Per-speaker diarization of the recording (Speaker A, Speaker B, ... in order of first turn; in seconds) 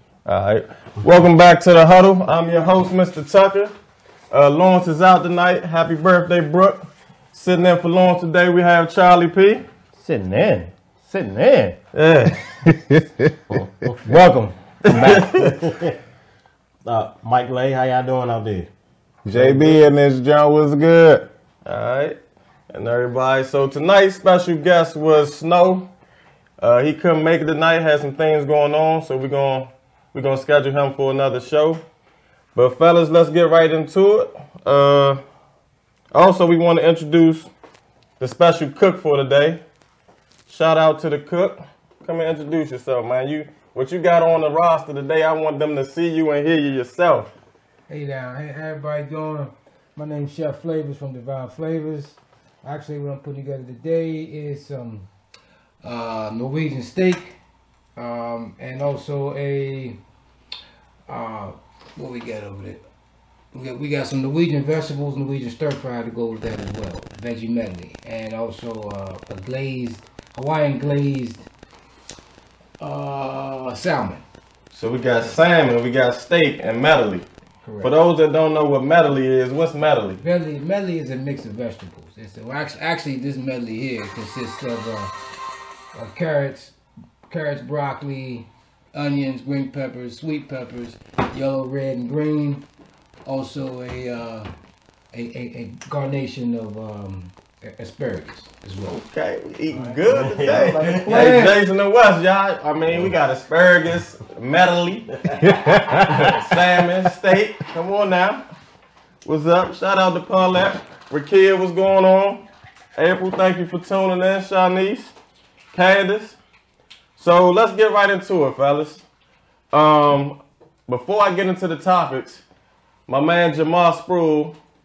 Speaker A: 0.2-3.7, 4.3-9.6, 11.9-12.4, 14.8-15.7, 21.6-22.2, 22.7-25.9, 26.6-31.8, 32.5-35.2, 36.1-37.5, 38.2-39.6, 40.5-47.3, 74.7-77.2, 77.8-80.2, 98.9-105.1, 106.1-108.4, 109.2-115.1, 115.7-116.4, 117.2-119.0, 119.7-122.4, 123.1-124.6
Speaker B: 9.9-11.8, 14.0-14.6, 100.2-101.5
Speaker C: 12.6-14.1, 19.2-21.3, 105.3-106.5
Speaker D: 14.9-16.0, 16.8-18.7, 19.3-19.9, 100.1-101.4
Speaker E: 47.9-55.1, 55.8-57.4, 58.0-60.0, 61.1-62.8, 63.5-71.5, 72.8-74.2, 77.6-77.9, 80.2-85.1, 85.9-86.8, 87.3-92.6, 93.2-94.5, 95.1-99.0